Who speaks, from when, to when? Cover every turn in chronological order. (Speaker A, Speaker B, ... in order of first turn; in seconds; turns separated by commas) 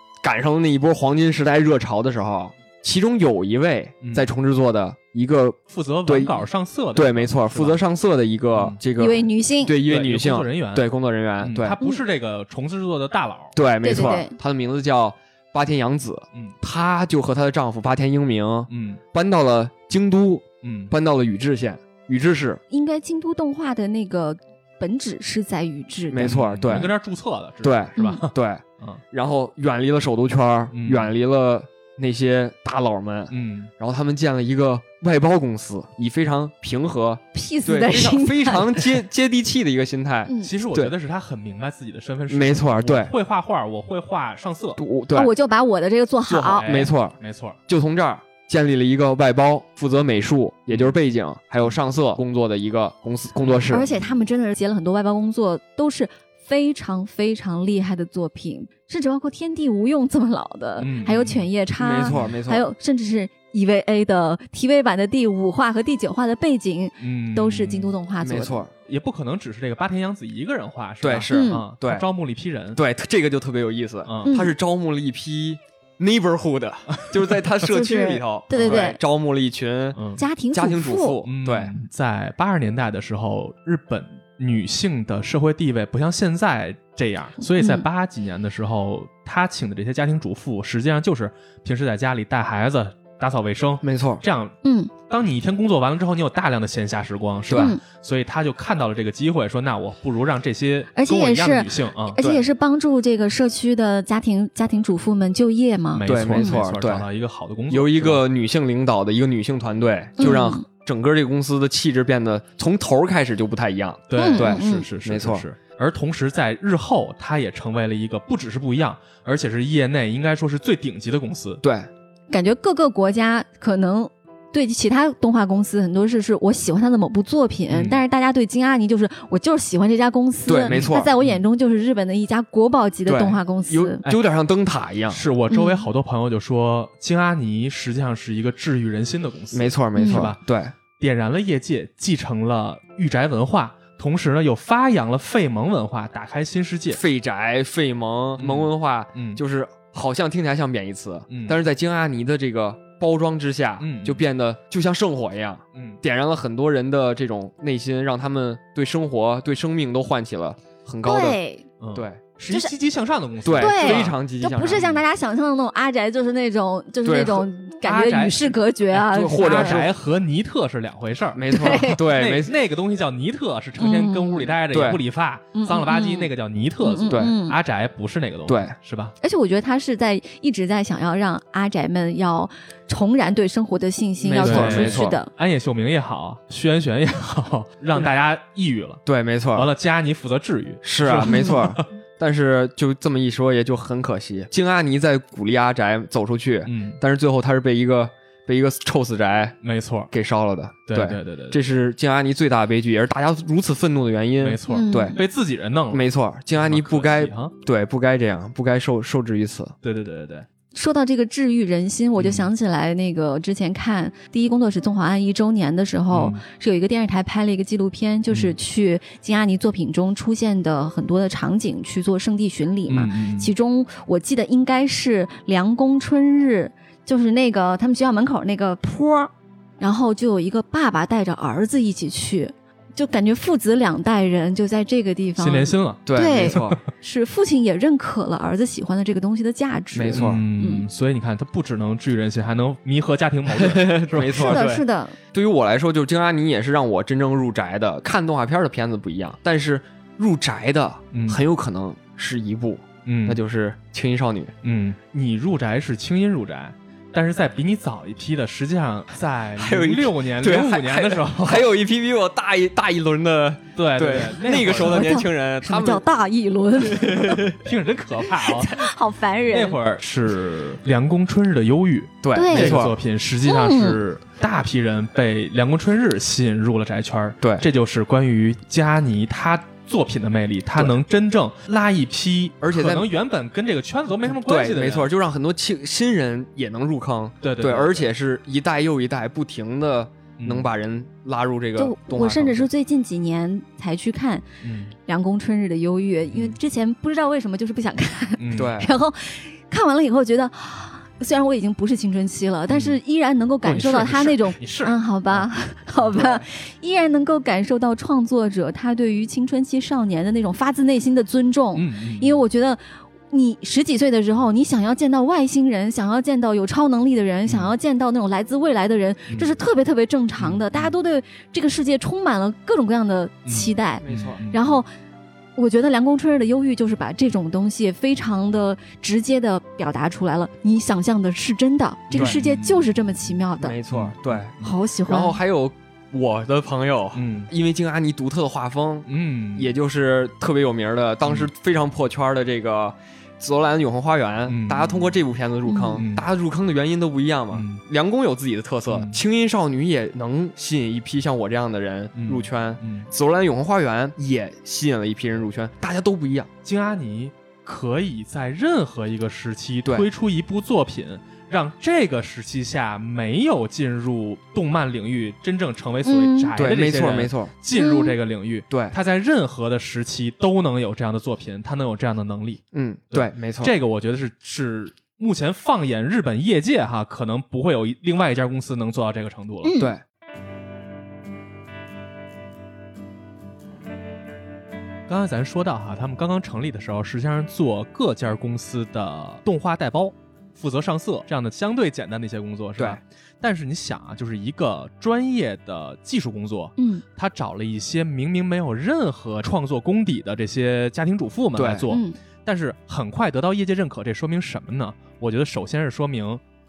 Speaker A: 0.2-6.4, Speaker B: 4.0-4.3, Speaker B: 5.7-7.8, Speaker A: 6.9-11.8, Speaker C: 9.0-9.7, Speaker B: 9.8-14.2, Speaker A: 13.5-22.6, Speaker C: 13.8-14.3, Speaker B: 18.7-19.0, Speaker B: 20.6-20.9, Speaker C: 22.7-26.4, Speaker A: 26.1-26.9, Speaker B: 26.2-29.0, Speaker A: 27.6-40.9, Speaker C: 28.0-28.2, Speaker B: 30.7-31.1, Speaker B: 33.3-33.7, Speaker C: 37.3-38.9, Speaker C: 40.2-40.5, Speaker B: 40.4-44.8, Speaker A: 42.3-43.1, Speaker A: 44.8-45.3, Speaker C: 45.1-46.7, Speaker A: 46.3-53.9, Speaker B: 46.4-47.6, Speaker B: 53.6-54.1, Speaker C: 53.7-68.6, Speaker B: 60.8-61.5, Speaker A: 61.8-62.6, Speaker B: 62.1-62.3, Speaker B: 67.0-67.9, Speaker A: 68.2-68.7, Speaker B: 68.8-72.8, Speaker A: 71.0-72.0, Speaker C: 71.3-71.6, Speaker A: 72.7-80.0, Speaker B: 74.0-74.4, Speaker C: 74.2-74.5, Speaker B: 76.9-77.4, Speaker C: 77.6-79.0, Speaker B: 78.5-78.9, Speaker B: 79.9-80.2, Speaker C: 80.2-81.2, Speaker A: 80.5-81.7, Speaker B: 81.2-94.5, Speaker C: 87.5-87.8, Speaker A: 93.8-94.2, Speaker C: 94.6-94.9, Speaker B: 95.1-102.2, Speaker A: 97.5-97.7, Speaker C: 97.5-97.8, Speaker C: 100.9-106.6, Speaker A: 102.2-102.4, Speaker B: 105.9-108.2, Speaker A: 106.0-107.0, Speaker A: 107.7-115.4, Speaker C: 110.2-110.6, Speaker B: 114.1-121.6, Speaker C: 114.2-114.9, Speaker A: 121.6-121.9, Speaker C: 122.3-134.0, Speaker B: 127.7-128.0, Speaker A: 130.4-131.1, Speaker B: 130.7-131.4, Speaker A: 133.1-135.2, Speaker B: 135.1-140.4, Speaker C: 135.5-135.8, Speaker A: 139.5-140.7, Speaker C: 139.9-140.3, Speaker B: 140.9-147.0, Speaker A: 146.9-161.4, Speaker B: 148.4-149.4, Speaker B: 151.3-151.6, Speaker B: 153.8-154.2, Speaker B: 155.7-156.0, Speaker C: 161.0-161.7, Speaker B: 161.8-165.0, Speaker A: 161.9-162.2, Speaker A: 163.4-164.8, Speaker C: 163.5-169.8, Speaker A: 167.0-167.5, Speaker B: 167.8-179.1, Speaker A: 169.1-169.9, Speaker A: 171.3-172.5, Speaker C: 171.5-172.0, Speaker C: 173.8-174.5, Speaker A: 174.7-175.0, Speaker C: 175.5-176.3, Speaker C: 176.8-177.6, Speaker A: 177.1-177.3, Speaker A: 178.5-178.7, Speaker C: 179.2-185.3, Speaker A: 184.2-185.2, Speaker B: 184.4-189.0, Speaker A: 189.1-189.7, Speaker B: 189.5-191.9, Speaker A: 190.8-199.6, Speaker C: 191.2-191.6, Speaker B: 196.7-197.0, Speaker B: 199.6-200.1, Speaker A: 200.1-205.2, Speaker B: 200.9-201.6, Speaker B: 204.4-207.5, Speaker C: 204.7-205.2, Speaker A: 205.9-209.7, Speaker B: 209.8-210.5, Speaker C: 210.7-240.8, Speaker B: 212.2-212.5, Speaker B: 216.1-216.4, Speaker B: 218.3-218.6, Speaker B: 222.9-223.5, Speaker B: 235.4-236.8, Speaker A: 236.1-236.8, Speaker A: 239.9-240.4, Speaker B: 240.1-244.8, Speaker A: 243.5-254.5, Speaker C: 244.2-245.2, Speaker B: 251.1-251.4, Speaker B: 253.1-253.4, Speaker B: 254.6-261.7, Speaker A: 259.6-266.0, Speaker B: 263.7-265.1, Speaker C: 264.6-267.5, Speaker A: 266.9-267.6, Speaker B: 267.5-268.9, Speaker C: 268.4-269.8, Speaker B: 269.5-285.1, Speaker A: 272.2-272.9, Speaker C: 272.3-272.8, Speaker C: 273.4-274.0, Speaker A: 282.6-283.1, Speaker A: 284.2-292.7, Speaker B: 287.4-288.1, Speaker B: 290.4-290.7, Speaker C: 291.8-294.4, Speaker B: 294.6-294.9, Speaker C: 295.0-324.9, Speaker B: 298.4-298.8, Speaker A: 298.5-298.9, Speaker B: 302.7-303.0, Speaker B: 303.6-305.5, Speaker B: 311.7-312.4, Speaker B: 317.4-317.7, Speaker B: 319.3-319.5, Speaker B: 320.4-320.9, Speaker B: 323.4-324.8, Speaker A: 324.0-324.4, Speaker C: 325.6-333.8, Speaker B: 332.1-333.3, Speaker A: 332.1-332.4, Speaker A: 333.6-334.5, Speaker B: 333.9-334.7, Speaker C: 334.6-335.4, Speaker A: 335.1-356.5, Speaker B: 337.1-337.5, Speaker B: 339.1-339.7, Speaker B: 344.4-345.2, Speaker C: 345.7-346.0, Speaker B: 345.9-346.2, Speaker B: 347.5-347.8, Speaker B: 348.9-349.2, Speaker B: 352.1-353.1, Speaker B: 356.6-379.7, Speaker C: 366.0-366.5, Speaker A: 366.6-367.5, Speaker C: 367.7-368.1, Speaker A: 368.7-368.9, Speaker A: 372.7-373.7, Speaker C: 379.6-379.9, Speaker B: 385.1-406.4, Speaker C: 396.8-397.0, Speaker A: 401.5-401.9, Speaker C: 401.9-402.2